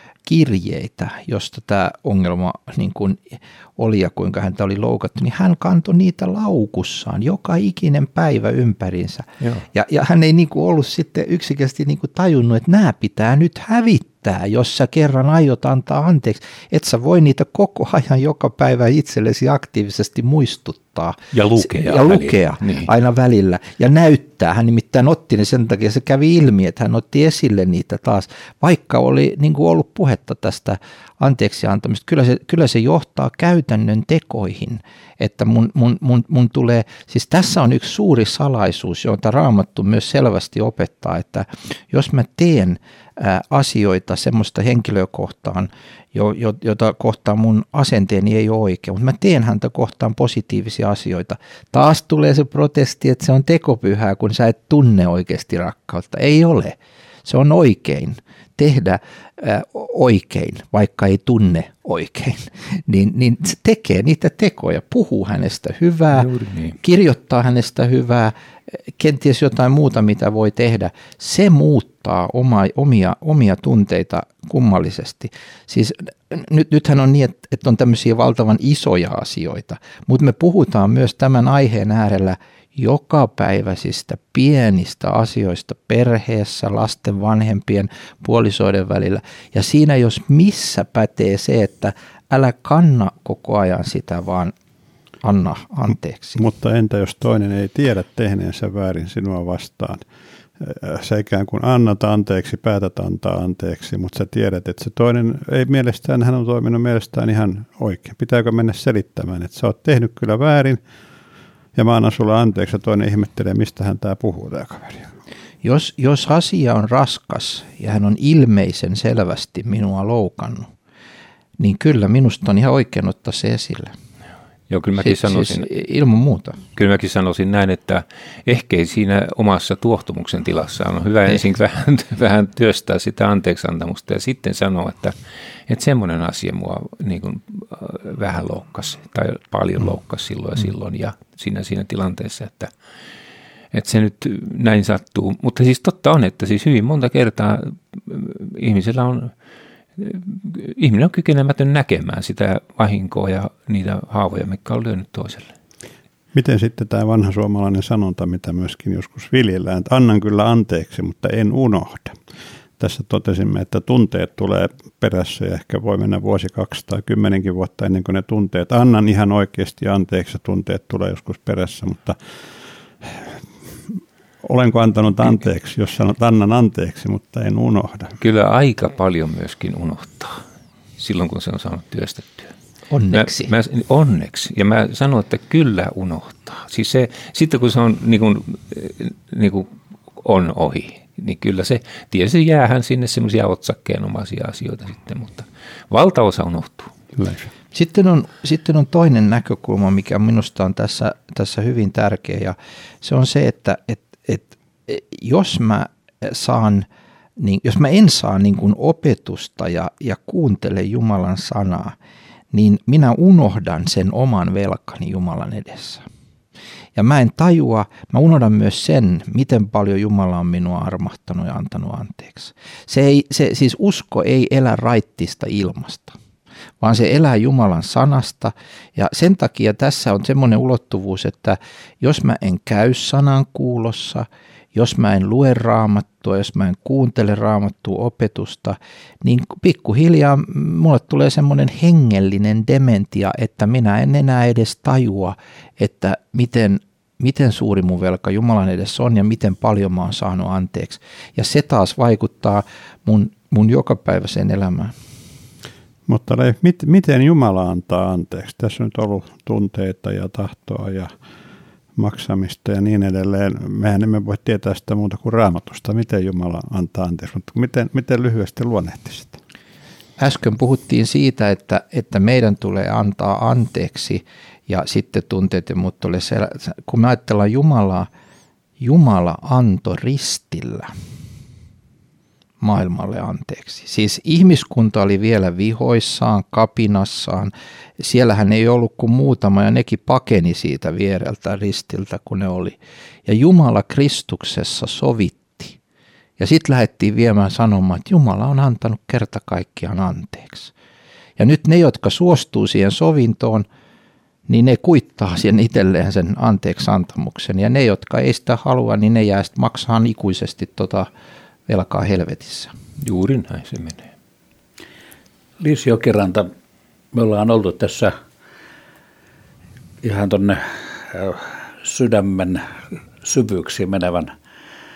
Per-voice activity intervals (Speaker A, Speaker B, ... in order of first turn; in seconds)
Speaker A: 0.3-68.3, 68.9-94.5, 95.2-96.4, 115.6-120.7, 121.6-123.9, 125.0-126.6, 182.9-183.5, 197.7-206.9, 207.4-211.9, 212.5-216.0, 217.0-226.2, 226.8-254.9, 270.2-278.1, 278.8-280.9, 282.6-295.8, 296.4-300.7, 301.4-303.7, 304.5-311.1, 311.7-312.7
Speaker B: 21.3-22.9, 66.1-66.8, 124.7-125.7, 126.7-142.7, 143.7-149.3, 150.0-155.5, 178.2-180.4, 181.0-182.5, 183.1-196.9, 313.0-314.1
Speaker C: 96.4-100.0, 100.6-110.8, 111.8-115.1, 156.3-162.2, 162.8-172.2, 173.0-178.2, 197.2-197.5, 256.1-261.1, 262.0-269.4
Speaker D: 315.6-316.5, 317.1-318.1, 320.0-322.6, 323.2-324.3